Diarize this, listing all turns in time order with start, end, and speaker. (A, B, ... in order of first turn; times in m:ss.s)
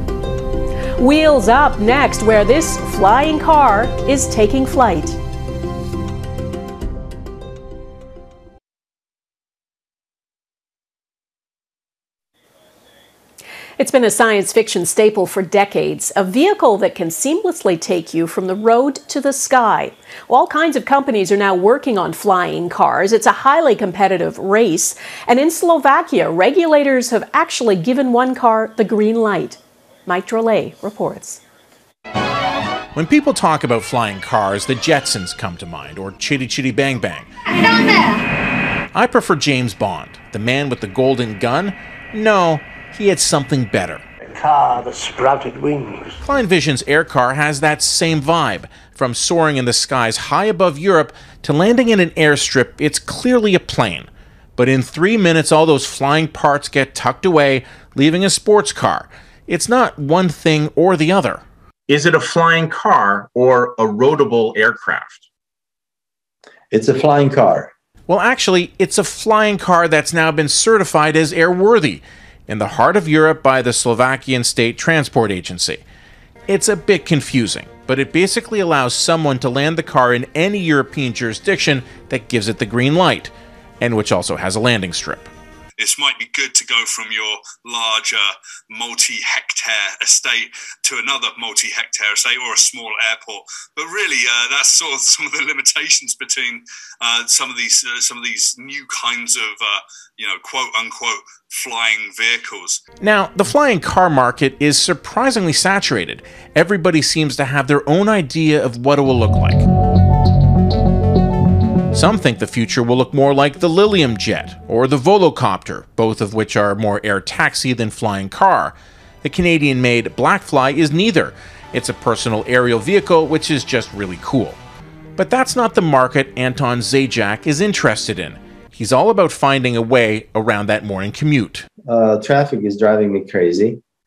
0:01.0-0:05.2 A
0:13.8-0:31.4 A
0:33.0-0:37.3 B
0:38.9-0:44.0 B
0:46.2-1:01.4 B
1:01.9-1:05.2 C
1:06.7-1:07.7 D
1:08.1-1:15.8 B
1:16.5-1:25.3 B
1:25.8-1:42.8 E
1:43.0-1:49.6 B
1:51.9-2:04.6 B
2:05.2-2:11.7 B
2:11.9-2:13.8 D